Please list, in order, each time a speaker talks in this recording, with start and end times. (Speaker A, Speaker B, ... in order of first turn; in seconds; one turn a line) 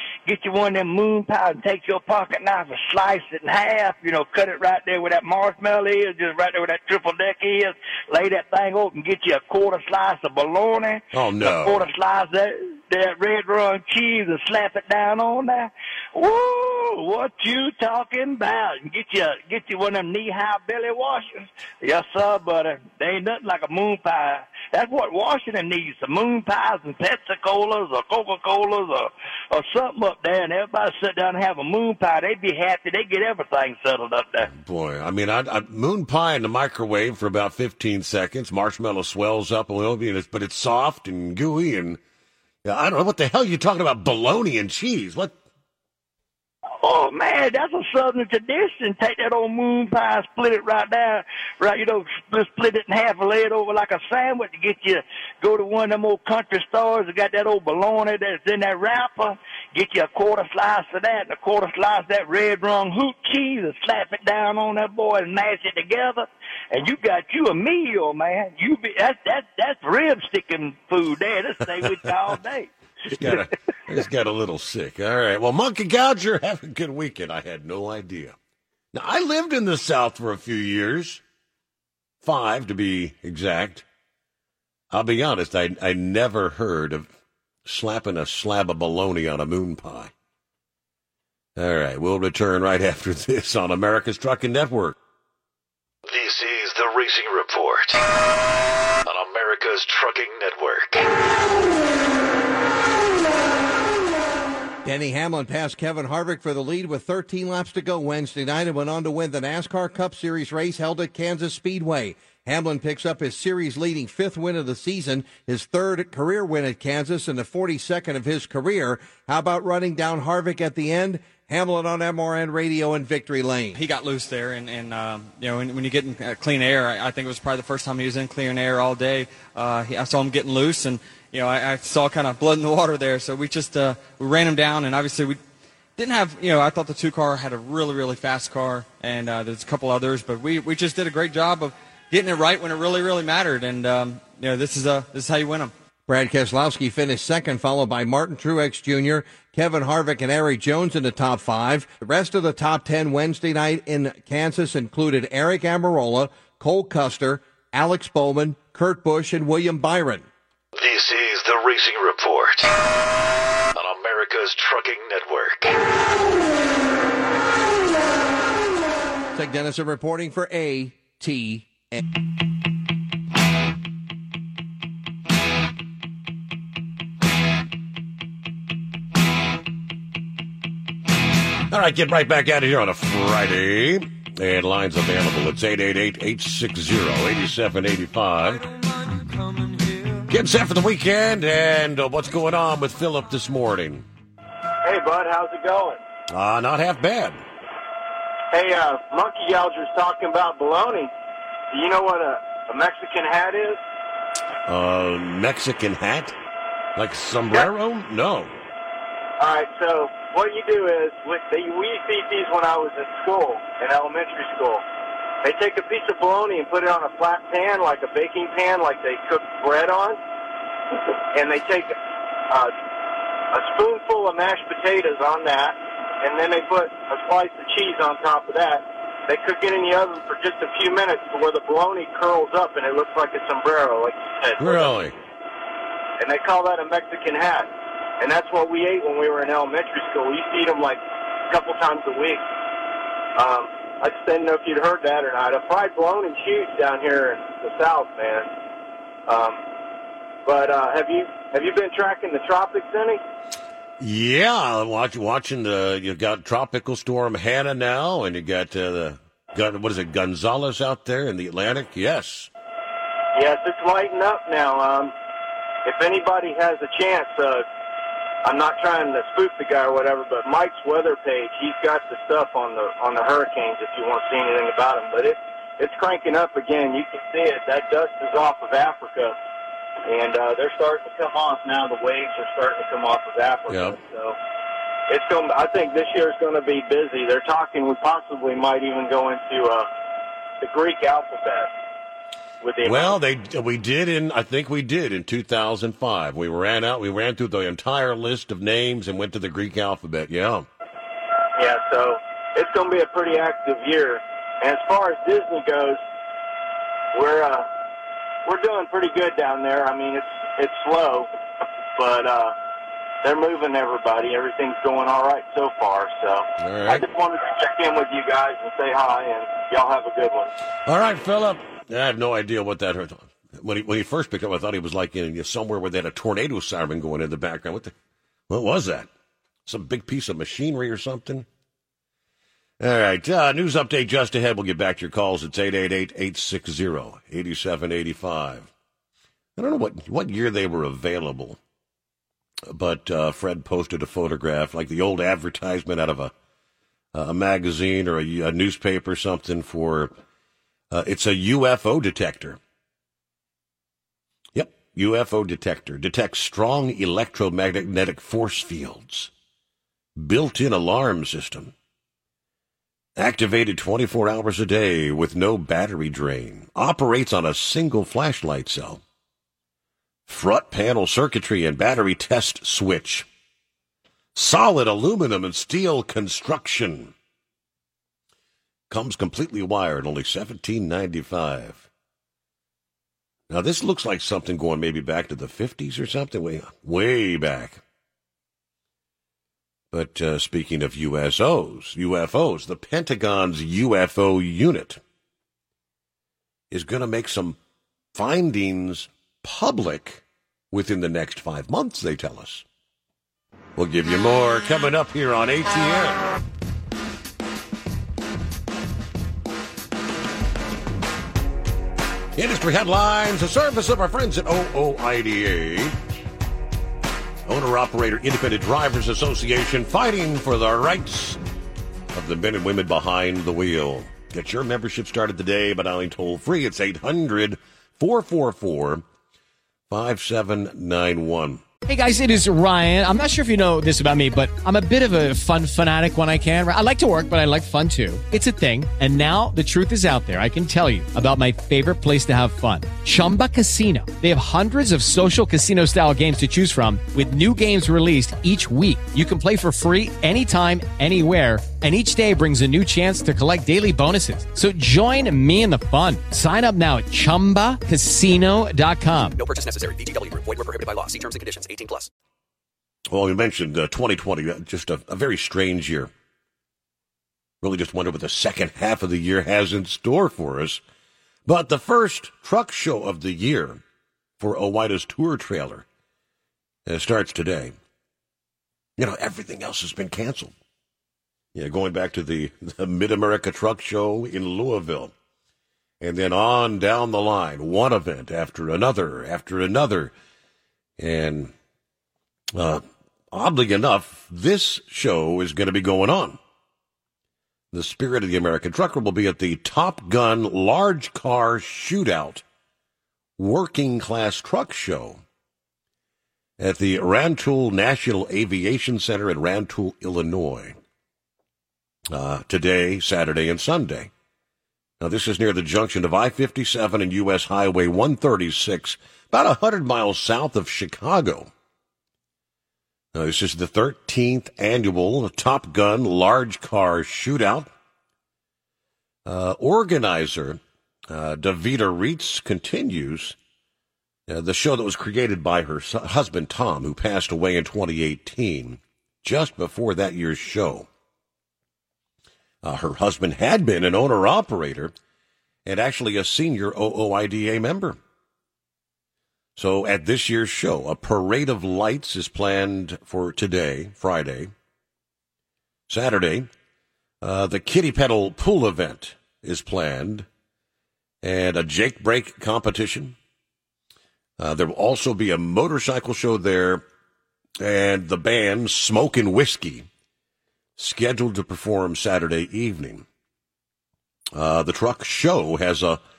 Speaker A: 0.2-34.5
Speaker B: 11.1-11.9
Speaker B: 34.5-42.0
Speaker B: 42.6-45.3
Speaker A: 46.8-73.5
Speaker B: 73.1-78.3
Speaker B: 78.9-81.2
Speaker B: 82.2-83.8
Speaker B: 84.9-87.1
Speaker B: 87.6-90.1
Speaker B: 91.5-95.0
Speaker C: 96.1-98.0
Speaker C: 99.0-101.1
Speaker D: 104.8-123.8
Speaker E: 123.8-135.4
Speaker E: 136.0-145.7
Speaker D: 146.1-160.3
Speaker C: 160.7-162.7
Speaker C: 163.7-165.8
Speaker D: 169.3-172.0
Speaker B: 181.7-188.7
Speaker B: 190.2-194.1
Speaker F: 194.8-196.0
Speaker B: 196.3-197.4
Speaker F: 198.5-201.1
Speaker F: 201.7-203.8
Speaker B: 204.7-206.3
Speaker B: 206.9-208.6
Speaker F: 209.4-214.8
Speaker F: 215.4-220.2
Speaker F: 221.3-221.9
Speaker F: 223.5-234.9
Speaker B: 234.6-235.1
Speaker F: 236.2-242.4
Speaker F: 243.3-248.5
Speaker F: 249.3-249.6
Speaker F: 250.4-253.2
Speaker B: 254.0-262.5
Speaker F: 263.3-265.1
Speaker F: 265.8-267.6
Speaker F: 268.4-279.4
Speaker F: 280.1-284.4
Speaker B: 283.7-283.9
Speaker F: 285.1-289.9
Speaker F: 290.6-291.7
Speaker F: 292.6-293.1
Speaker B: 292.8-300.6
Speaker F: 301.6-306.0
Speaker F: 307.1-307.7
Speaker F: 308.4-311.3
Speaker F: 311.9-312.5
Speaker F: 313.2-320.5
Speaker B: 316.6-317.0
Speaker B: 320.9-327.9
Speaker B: 328.5-329.1
Speaker B: 329.6-331.5
Speaker B: 332.8-338.7
Speaker B: 339.6-341.6
Speaker B: 342.7-346.3
Speaker B: 347.1-350.1
Speaker B: 350.9-352.6
Speaker B: 354.5-359.3
Speaker B: 360.1-361.7
Speaker B: 363.1-369.0
Speaker B: 370.3-373.3
Speaker B: 374.3-377.1
Speaker B: 378.9-381.9
Speaker B: 383.5-387.8
Speaker B: 389.9-395.0
Speaker B: 396.7-397.6
Speaker B: 398.1-402.6
Speaker B: 403.8-406.3
Speaker B: 412.4-416.0
Speaker B: 417.4-421.4
Speaker B: 422.1-429.0
Speaker B: 429.9-431.6
Speaker G: 431.8-459.4
Speaker H: 459.4-462.1
Speaker B: 463.1-466.1
Speaker B: 467.6-470.8
Speaker B: 471.4-473.8
Speaker B: 474.4-475.8
Speaker B: 476.9-477.7
Speaker B: 479.0-480.5
Speaker B: 481.5-485.1
Speaker B: 486.0-490.1
Speaker B: 491.0-491.5
Speaker B: 492.5-496.4
Speaker B: 497.7-502.4
Speaker B: 503.4-505.2
Speaker B: 506.6-510.8
Speaker B: 512.1-514.1
Speaker B: 515.0-521.5
Speaker B: 523.1-527.7
Speaker B: 529.2-533.4
Speaker B: 534.3-540.9
Speaker B: 542.6-544.9
Speaker B: 545.6-548.0
Speaker B: 549.6-554.5
Speaker B: 555.9-556.5
Speaker B: 557.2-560.2
Speaker B: 561.2-563.1
Speaker B: 564.4-566.8
Speaker B: 567.6-569.9
Speaker B: 570.8-573.0
Speaker B: 574.3-576.0